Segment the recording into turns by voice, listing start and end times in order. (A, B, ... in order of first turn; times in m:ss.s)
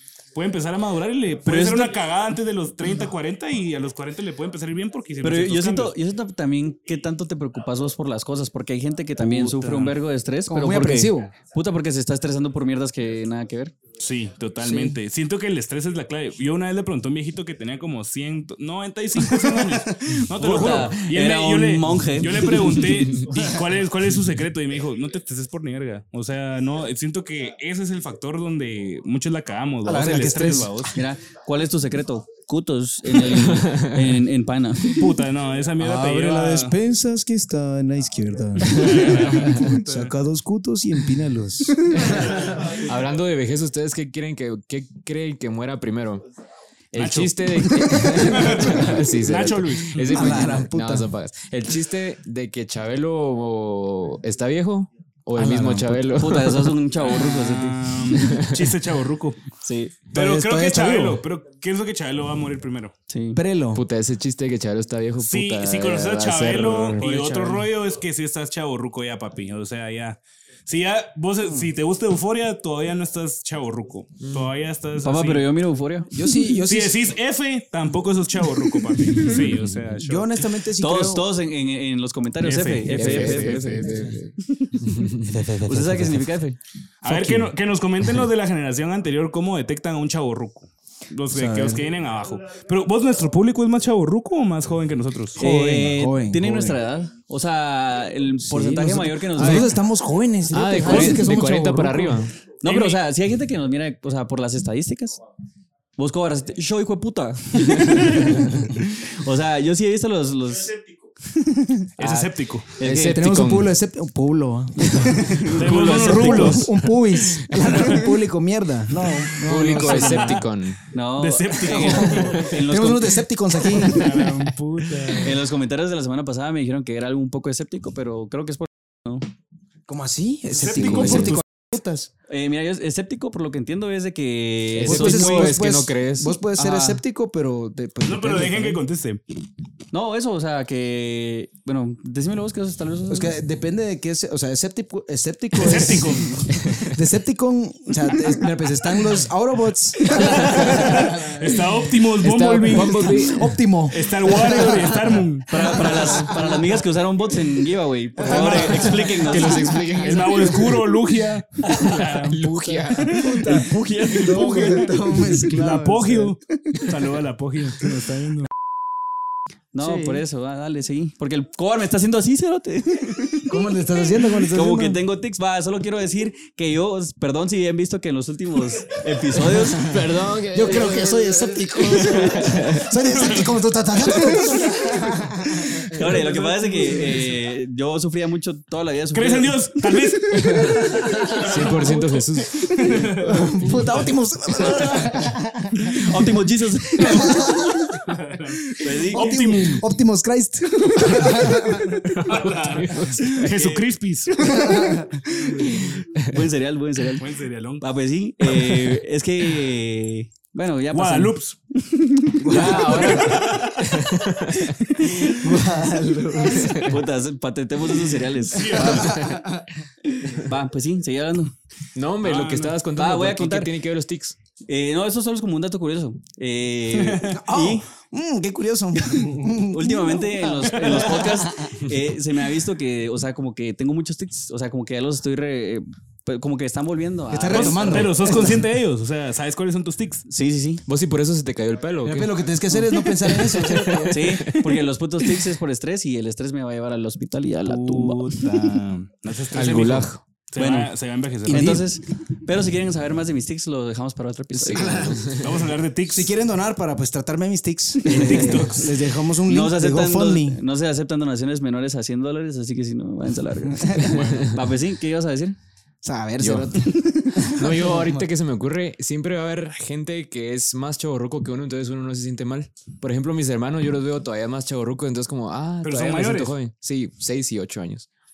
0:00.3-0:06.0 A
0:01.4-0:01.9 B
0:05.2-0:13.8 B
0:09.2-0:09.9 A
0:10.5-0:11.4 C
0:14.0-0:31.0 A
0:14.6-0:15.0 B
0:19.3-0:20.7 C
0:20.4-0:22.9 B
0:29.8-0:31.0 C
0:30.9-0:35.1 B
0:33.2-0:34.1 D
0:34.8-0:36.7 A
0:35.8-0:42.7 C
0:38.6-0:40.1 A
0:41.9-0:46.2 D
0:46.9-0:56.8 D
0:47.0-0:50.6 A
0:47.7-0:49.0 C
0:50.1-0:51.1 C
0:55.4-0:55.9 A
0:55.9-0:58.4 B
0:57.0-0:59.4 A
0:58.2-0:58.7 D
0:59.6-1:00.0 B
1:00.1-1:01.2 C
1:00.1-1:02.9 A
1:03.1-1:03.4 B
1:03.3-1:03.8 C
1:03.7-1:07.3 D
1:05.2-1:15.5 A
1:07.0-1:07.6 C
1:14.2-1:14.5 D
1:15.0-1:16.5 B
1:16.1-1:17.0 C
1:16.6-1:20.3 A
1:19.0-1:19.4 B
1:20.0-1:21.3 C
1:20.8-1:26.6 B
1:22.4-1:23.7 A
1:22.9-1:25.4 D
1:23.9-1:24.1 C
1:25.3-1:26.2 C
1:27.0-1:35.5 A
1:27.0-1:27.5 C
1:31.3-1:31.8 C
1:35.4-1:39.8 B
1:35.4-1:36.8 C
1:38.5-1:42.2 C
1:39.4-1:39.7 D
1:40.5-1:42.3 D
1:40.7-1:41.3 B
1:42.6-1:45.2 B
1:42.6-1:43.0 A
1:46.0-1:53.2 B
1:52.0-1:52.7 A
1:52.8-1:53.7 D
1:53.1-2:00.5 C
1:54.8-1:56.7 B
1:55.4-1:56.7 A
1:57.6-1:58.0 A
1:59.4-2:00.8 D
1:59.8-2:00.4 A
2:00.9-2:03.8 B
2:01.2-2:02.5 A
2:01.7-2:04.3 C
2:03.6-2:05.3 A
2:04.2-2:05.3 D
2:05.2-2:09.3 B
2:09.9-2:12.1 C
2:10.5-2:11.4 A
2:10.8-2:11.4 D
2:12.3-2:15.6 B
2:14.7-2:16.3 D
2:14.8-2:18.8 C
2:16.6-2:17.0 B
2:18.0-2:19.2 A
2:19.9-2:23.3 B
2:23.1-2:31.6 C
2:25.5-2:26.5 A
2:26.5-2:27.0 D
2:30.1-2:33.2 A
2:32.2-2:33.6 D
2:32.7-2:36.8 C
2:33.9-2:36.1 A
2:35.5-2:39.8 B
2:38.2-2:40.6 C
2:38.2-2:42.4 A
2:38.3-2:40.8 D
2:41.6-2:43.3 D
2:42.4-2:47.1 C
2:43.1-2:44.9 B
2:44.1-2:48.5 A
2:49.7-2:59.9 B
2:49.8-2:50.2 C
2:53.5-2:55.0 C
2:59.4-3:02.9 D
2:59.5-3:07.3 C
3:03.0-3:04.6 A
3:04.4-3:05.0 D
3:05.9-3:09.7 B
3:06.0-3:06.3 A
3:09.1-3:14.1 A
3:10.3-3:16.3 C
3:11.3-3:13.0 D
3:15.9-3:17.5 B
3:16.9-3:18.1 C
3:17.9-3:19.9 A
3:18.7-3:22.2 C
3:18.8-3:19.5 B
3:21.1-3:24.7 A
3:22.6-3:23.5 D
3:23.2-3:23.8 B
3:24.3-3:26.0 C
3:24.4-3:24.7 B
3:25.5-3:25.8 A
3:26.2-3:27.3 B
3:27.2-3:27.8 A
3:27.8-3:33.4 B
3:28.5-3:28.9 A
3:30.9-3:31.6 A
3:32.4-3:33.4 C
3:32.4-3:34.8 D
3:32.9-3:34.0 A
3:34.9-3:35.4 B
3:35.0-3:36.9 C
3:36.4-3:37.0 D
3:36.8-3:39.2 B
3:38.5-3:39.2 A
3:38.7-3:39.7 C
3:38.9-3:39.3 D
3:40.2-3:41.5 B
3:41.9-3:44.4 D
3:42.2-3:42.8 A
3:42.9-3:43.7 B
3:44.7-3:47.9 B
3:46.9-3:47.4 A
3:47.3-3:51.7 C
3:48.9-3:58.3 B
3:50.6-3:51.4 A
3:57.3-3:58.6 C
3:57.5-4:00.2 A
4:00.3-4:00.8 B
4:00.8-4:04.6 D
4:02.0-4:04.4 C
4:04.1-4:08.7 B
4:07.6-4:11.8 A
4:09.5-4:10.2 D
4:10.6-4:10.9 B
4:11.4-4:11.8 C
4:11.5-4:15.1 B
4:14.5-4:15.6 D
4:14.7-4:15.2 C
4:15.4-4:16.3 A
4:16.1-4:20.6 C
4:18.0-4:19.0 A
4:18.0-4:18.7 B
4:19.5-4:25.6 B
4:23.7-4:24.2 C
4:24.0-4:24.6 A
4:24.2-4:24.6 D
4:26.0-4:28.2 C
4:26.4-4:26.8 D
4:26.8-4:27.6 B
4:27.5-4:38.1 D
4:35.8-4:36.5 A